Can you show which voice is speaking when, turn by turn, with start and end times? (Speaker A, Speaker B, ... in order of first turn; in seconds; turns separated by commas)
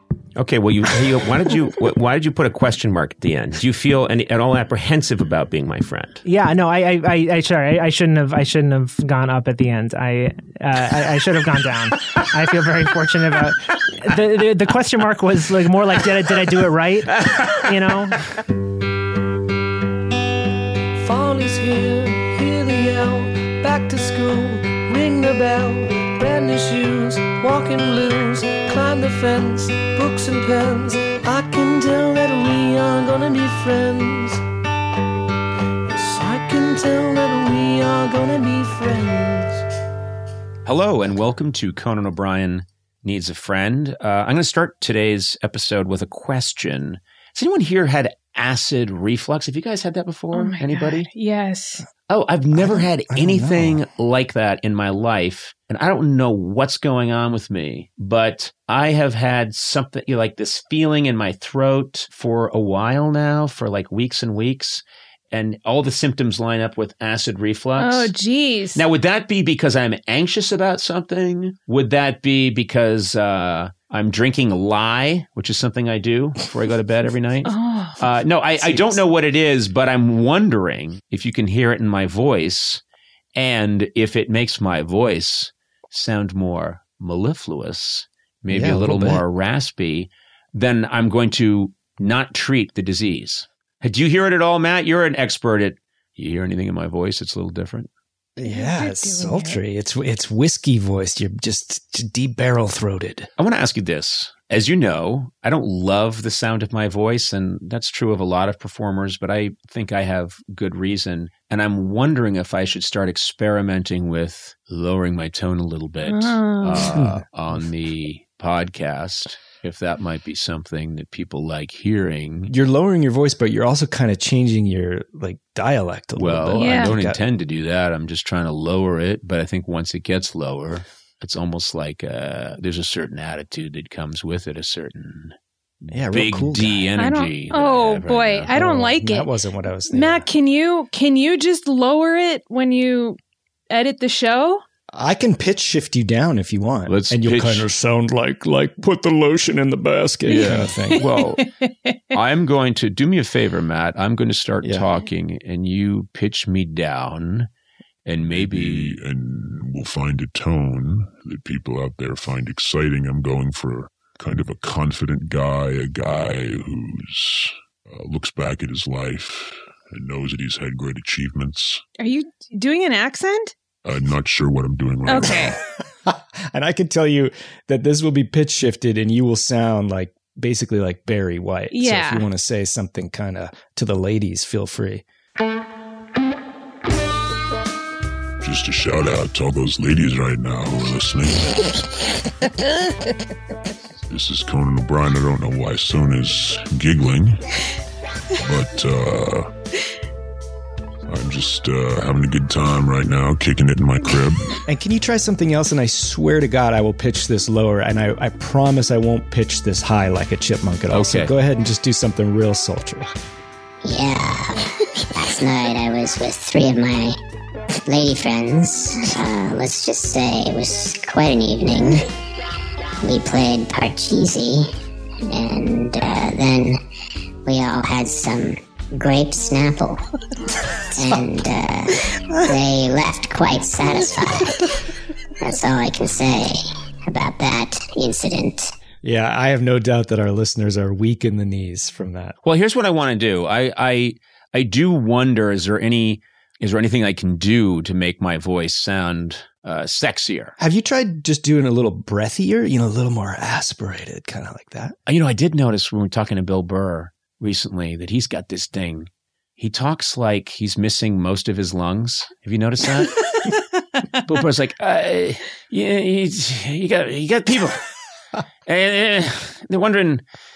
Speaker A: 0.4-6.2, Speaker B: 6.2-18.2, Speaker A: 17.1-17.6, Speaker C: 21.0-34.4, Speaker C: 35.9-39.6, Speaker A: 40.6-51.1, Speaker D: 50.3-51.9, Speaker A: 52.1-68.1, Speaker E: 52.5-53.8, Speaker D: 67.8-68.8, Speaker A: 68.8-82.8, Speaker D: 77.5-78.0, Speaker A: 83.4-97.9, Speaker E: 88.5-89.2, Speaker E: 98.4-103.3, Speaker D: 98.4-99.6, Speaker A: 103.4-122.5, Speaker D: 116.1-116.9, Speaker E: 116.8-117.2, Speaker E: 122.5-127.2, Speaker A: 126.2-138.5, Speaker D: 126.5-127.0, Speaker E: 135.9-136.9, Speaker D: 137.0-139.3, Speaker E: 138.5-140.3, Speaker D: 139.9-143.2, Speaker D: 143.7-144.6, Speaker E: 144.9-151.1, Speaker A: 146.9-147.7, Speaker D: 150.3-152.1, Speaker A: 150.3-151.5, Speaker A: 152.1-157.5, Speaker A: 158.1-159.0, Speaker F: 158.2-171.8, Speaker D: 172.0-173.6, Speaker F: 173.8-175.6, Speaker D: 175.1-175.6, Speaker E: 176.1-185.0, Speaker D: 181.7-182.3, Speaker F: 188.4-191.8, Speaker F: 194.1-197.4, Speaker F: 198.4-199.5, Speaker F: 201.1-204.6, Speaker E: 204.7-213.1, Speaker A: 210.9-211.3, Speaker G: 213.8-217.2, Speaker G: 217.9-222.1, Speaker G: 223.0-224.7, Speaker G: 225.2-226.8, Speaker G: 227.4-230.0, Speaker G: 230.8-234.8, Speaker G: 235.4-238.7, Speaker E: 239.0-242.4, Speaker A: 242.4-250.6, Speaker E: 250.6-255.0, Speaker A: 255.1-263.6, Speaker A: 264.2-267.8, Speaker A: 268.7-270.2